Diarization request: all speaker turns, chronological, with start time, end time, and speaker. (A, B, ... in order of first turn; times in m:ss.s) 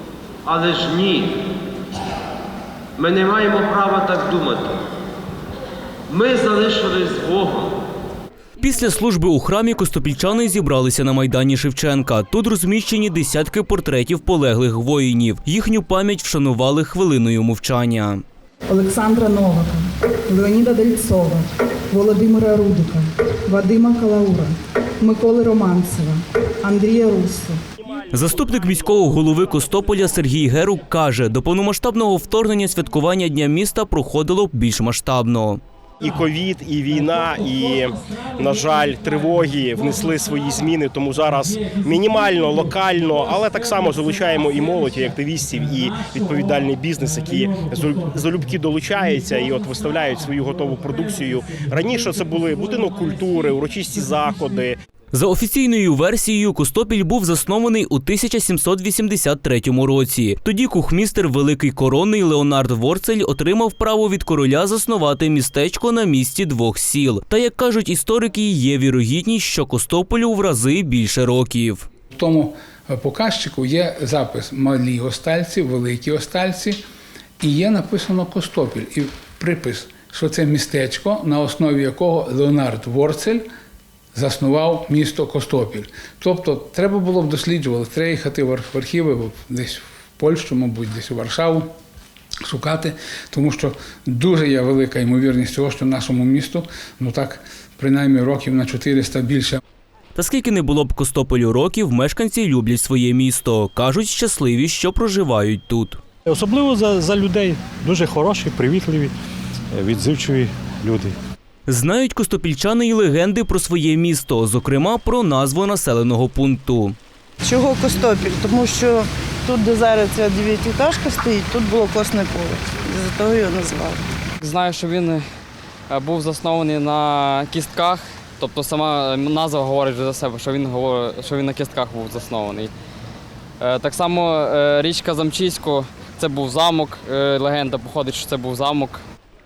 0:00.4-0:01.4 A
0:03.0-0:04.8 A
0:06.1-0:07.8 A
0:08.6-0:18.2 B
0:18.7-0:27.6 C
0:28.1-0:35.6 B
0:36.0-0:54.8 D
0:55.1-1:11.9 B
1:12.2-1:16.8 E
1:17.4-1:23.4 E
1:24.2-1:31.7 E
1:32.5-1:39.6 E
1:40.2-1:46.0 B
1:46.3-1:49.2 F
1:49.7-1:51.2 F
1:51.7-1:57.0 B
1:57.4-2:04.1 G
2:04.4-2:05.2 H
2:05.9-2:12.7 H
2:13.6-2:19.0 H